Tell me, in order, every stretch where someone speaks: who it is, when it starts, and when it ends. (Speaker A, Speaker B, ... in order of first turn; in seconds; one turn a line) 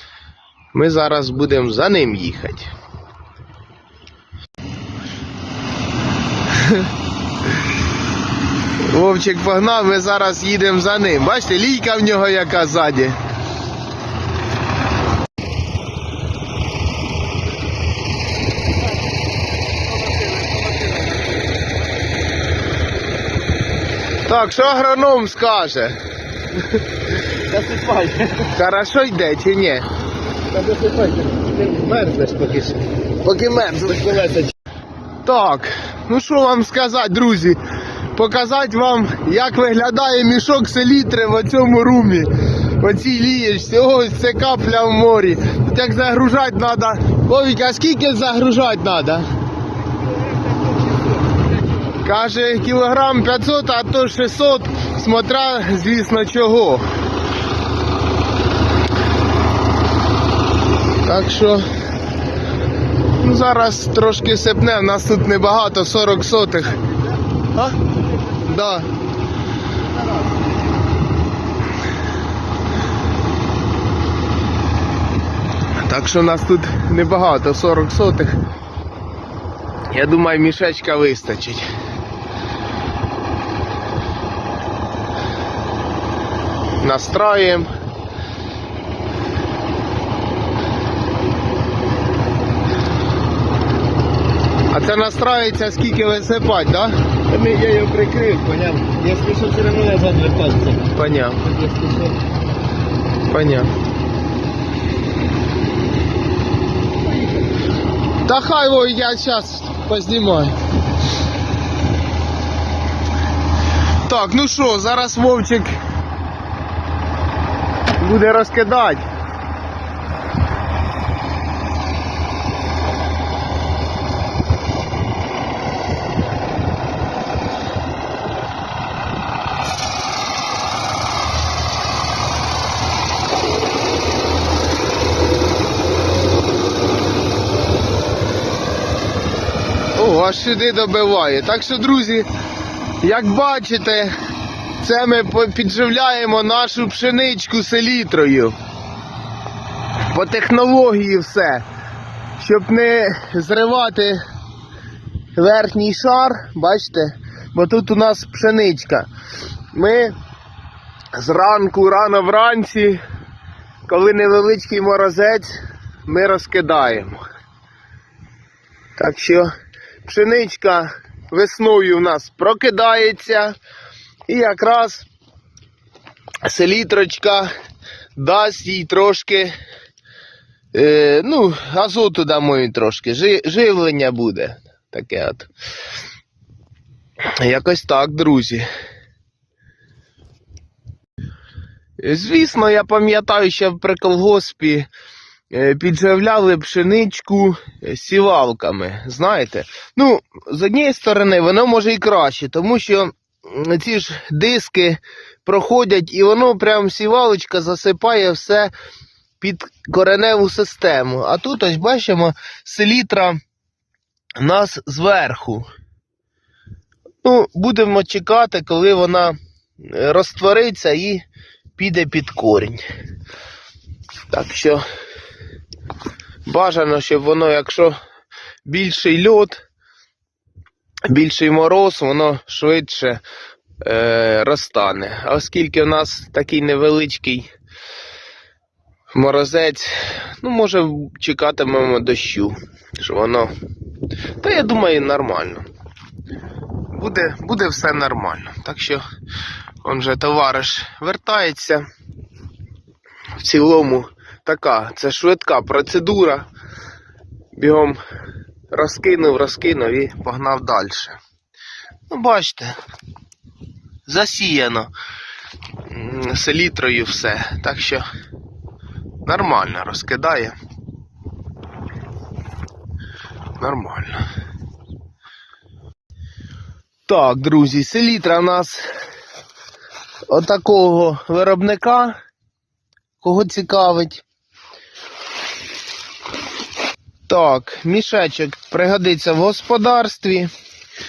Speaker A: 0.7-2.7
Speaker A: 6.6-6.8
Speaker A: 8.8-13.2
Speaker B: 19.9-21.2
Speaker A: 24.2-26.0
Speaker B: 27.5-28.5
Speaker A: 28.4-29.9
Speaker B: 30.5-32.9
Speaker A: 33.2-34.5
Speaker A: 35.2-37.6
Speaker A: 38.1-49.2
Speaker B: 50.3-51.4
Speaker A: 52.0-56.9
Speaker A: 61.0-61.7
Speaker A: 63.2-66.8
Speaker A: 68.3-68.9
Speaker A: 75.8-78.4
Speaker A: 79.9-81.7
Speaker A: 86.8-87.7
Speaker A: 94.7-97.0
Speaker B: 97.3-100.9
Speaker A: 100.8-101.6
Speaker B: 101.5-102.2
Speaker A: 103.3-103.7
Speaker A: 108.2-110.6
Speaker A: 114.0-115.8
Speaker A: 118.0-119.1
Speaker A: 139.9-142.3
Speaker A: 143.0-144.1
Speaker A: 144.8-148.6
Speaker A: 150.1-151.6
Speaker A: 152.4-154.2
Speaker A: 155.3-159.1
Speaker A: 159.7-160.2
Speaker A: 161.1-163.0
Speaker A: 163.9-167.2
Speaker A: 169.0-169.5
Speaker A: 170.0-173.5
Speaker A: 174.3-175.1
Speaker A: 176.4-177.5
Speaker A: 178.1-179.5
Speaker A: 180.7-185.5
Speaker A: 187.4-188.7
Speaker A: 192.0-194.9
Speaker A: 195.5-208.7
Speaker A: 209.4-213.4
Speaker A: 214.4-215.7
Speaker A: 217.2-221.2
Speaker A: 221.8-222.8
Speaker A: 224.3-224.8
Speaker A: 226.4-227.9
Speaker A: 228.6-229.6
Speaker A: 231.1-233.2
Speaker A: 233.8-237.5
Speaker A: 239.1-243.5
Speaker A: 244.4-245.7
Speaker A: 246.9-249.0
Speaker A: 249.8-251.8
Speaker A: 253.4-256.4
Speaker A: 257.5-258.0
Speaker A: 258.7-261.2
Speaker A: 262.1-262.8
Speaker A: 264.1-264.9
Speaker A: 265.9-268.1
Speaker A: 269.2-270.6
Speaker A: 273.6-274.2
Speaker A: 277.1-278.9
Speaker A: 280.3-282.2
Speaker A: 283.2-284.2
Speaker A: 287.3-290.5